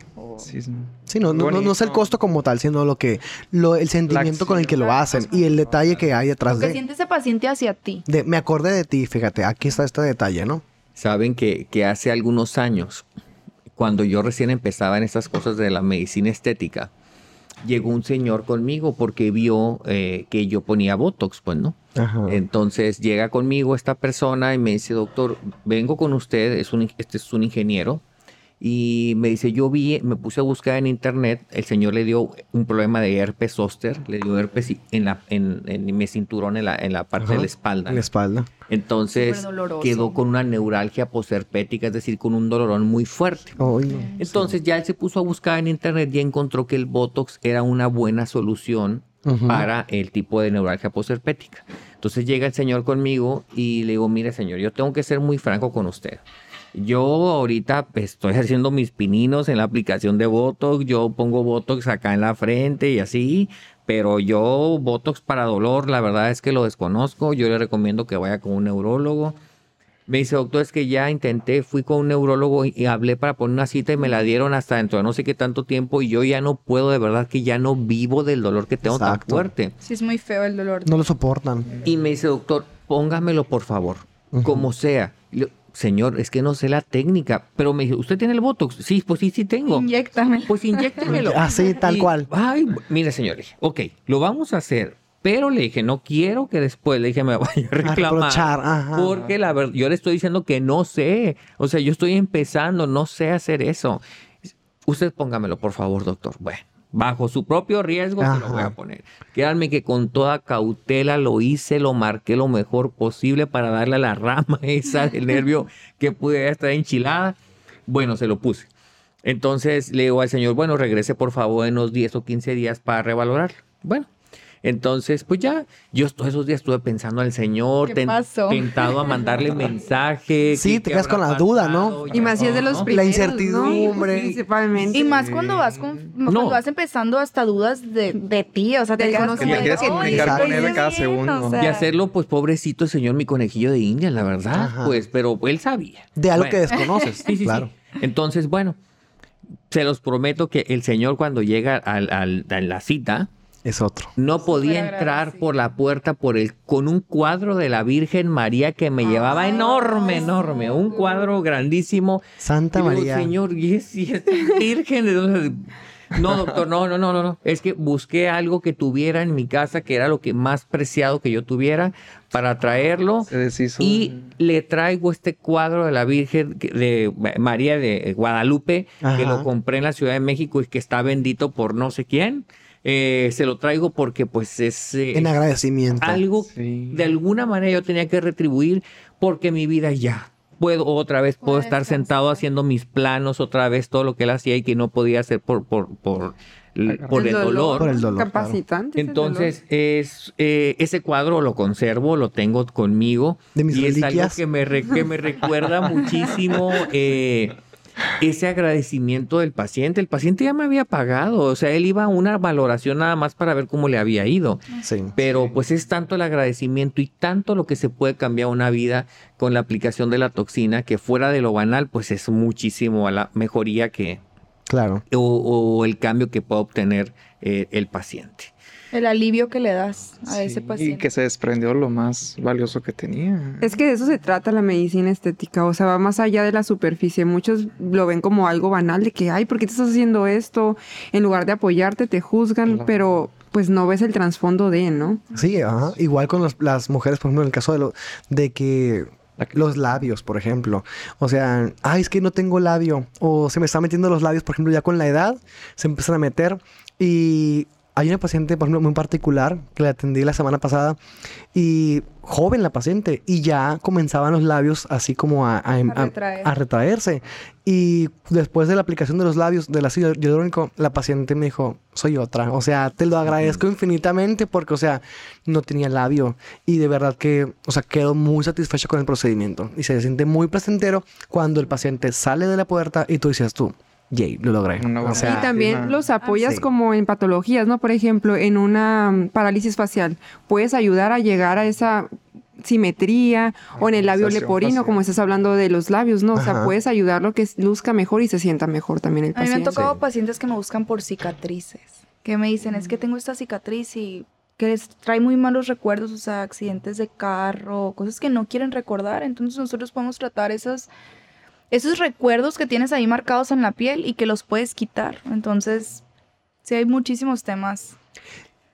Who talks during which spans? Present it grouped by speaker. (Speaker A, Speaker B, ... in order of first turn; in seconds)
Speaker A: 0.2-2.1, 4.1-6.0, 132.1-132.7, 134.9-136.1, 139.3-141.6, 173.3-174.3, 186.4-187.1, 196.9-197.3, 230.3-233.8, 242.7-243.0, 284.8-286.0, 293.8-295.0
Speaker B: 1.1-6.8, 8.1-10.6, 21.9-22.4, 37.2-38.5, 43.6-44.5, 49.2-49.7, 78.8-79.5, 80.8-81.7, 84.3-84.7, 91.0-92.3, 97.8-99.1, 108.2-108.7, 130.5-132.0, 132.8-134.4, 140.1-140.7, 144.5-145.0, 146.2-147.7, 153.6-154.1, 162.4-163.3, 179.0-179.5, 185.1-186.2, 197.8-198.6, 203.5-204.4, 214.8-215.1, 224.7-225.0, 245.3-261.0, 261.5-285.6, 296.3-296.7, 299.7-300.0
Speaker C: 6.5-8.0, 39.1-40.2, 43.9-44.1, 79.8-81.0, 89.7-91.2, 127.8-129.5, 134.9-141.9, 154.4-155.4, 159.0-161.2, 191.4-192.4, 228.9-231.1, 265.9-266.5, 286.2-286.5, 299.3-310.9, 311.7-316.0, 316.6-317.9
Speaker D: 10.9-13.1, 13.8-16.9, 17.6-28.0, 28.6-38.0, 38.7-43.6, 44.2-56.2, 56.7-69.3, 70.1-79.7, 81.8-89.9, 90.5-104.0, 104.8-117.3, 117.9-118.7, 119.2-124.1, 124.6-132.9, 136.2-136.6, 139.4-139.7, 141.6-148.8, 149.7-153.3, 154.2-162.2, 162.7-185.4, 186.0-197.9, 198.9-207.6, 208.2-214.6, 215.2-224.2, 225.1-228.5
Speaker E: 132.1-135.1, 139.0-140.7, 197.1-199.5, 233.6-245.2, 285.1-299.8